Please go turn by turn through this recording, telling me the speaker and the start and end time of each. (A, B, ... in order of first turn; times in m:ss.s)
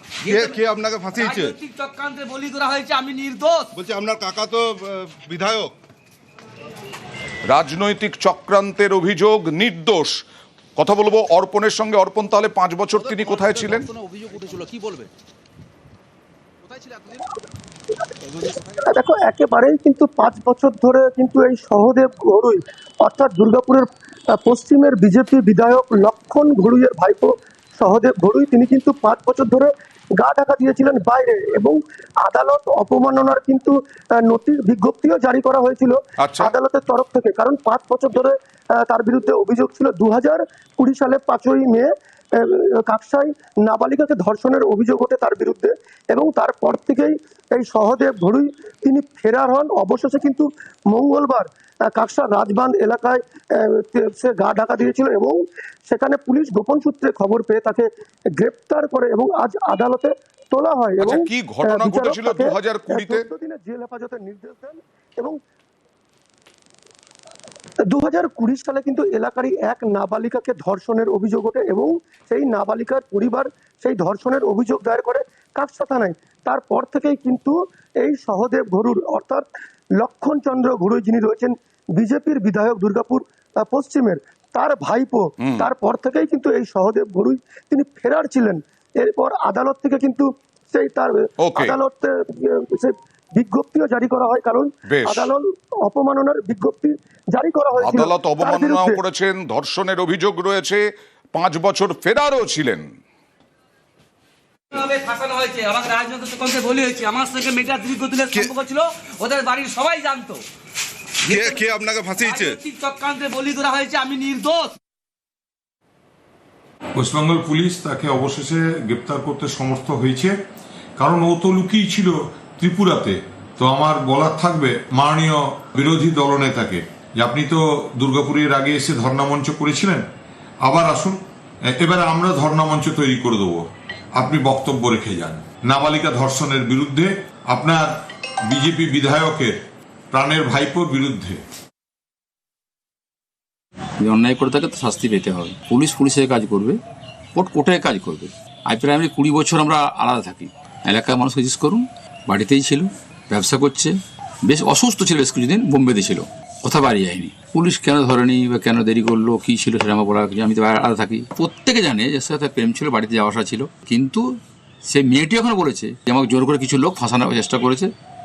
0:00.2-0:01.6 A
0:01.3-0:03.7 B
0:03.7-0:05.7 A
0:07.5-0:10.2 C
0:10.8-0:13.9 C
0:13.0-0:15.1 B
0:16.6-0:17.3 B
0:18.9-0:23.9 D
0:24.4-1:05.4 D
0:36.2-0:36.5 C
1:01.0-1:03.2 C
1:07.9-1:19.4 D
1:20.0-1:39.0 D
1:25.4-1:25.7 C
1:31.4-1:31.8 C
1:34.9-1:35.3 C
1:37.8-1:42.9 C
1:44.8-1:50.4 B
1:51.2-1:52.6 A
1:52.3-1:54.8 B
1:57.0-2:00.4 E
2:01.0-2:10.0 E
2:10.6-2:11.2 E
2:11.8-2:17.9 E
2:18.5-2:19.6 E
2:20.1-2:21.4 E
2:24.0-2:26.8 F
2:27.4-2:34.0 F
2:34.5-2:44.2 F
2:44.9-2:47.9 F